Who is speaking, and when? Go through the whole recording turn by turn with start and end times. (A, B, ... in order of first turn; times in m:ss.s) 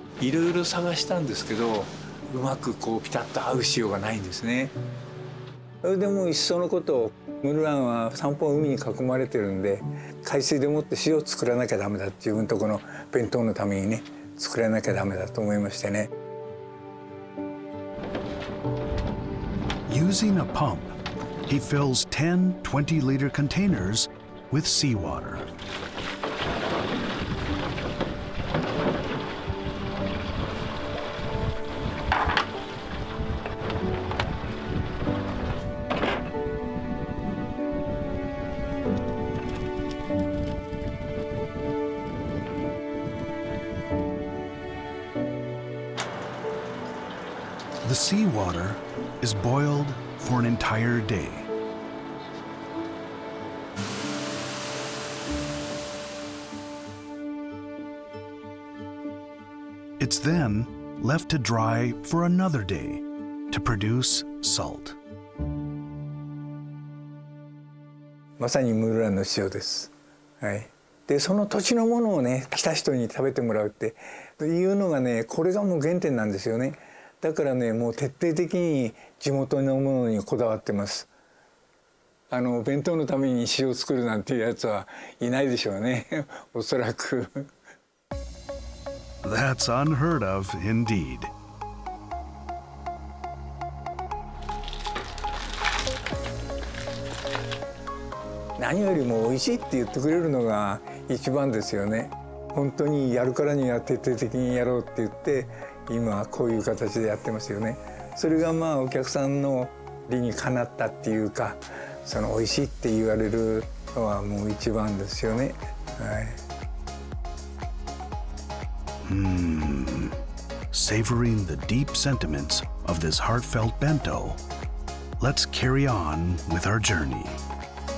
0:00.2-0:04.7 A
0:05.8-0:16.1 A
0:19.9-0:20.9 B
0:21.5-0:25.5 B
0:47.8-0:51.5 B
1:00.0-1:05.0 B
1:08.4-1:21.1 A
1:22.3-1:27.5 A
1:29.2-1:31.3 B
1:38.6-1:56.4 A
1:59.0-2:00.2 B
2:00.7-2:04.4 B
2:05.2-2:07.4 B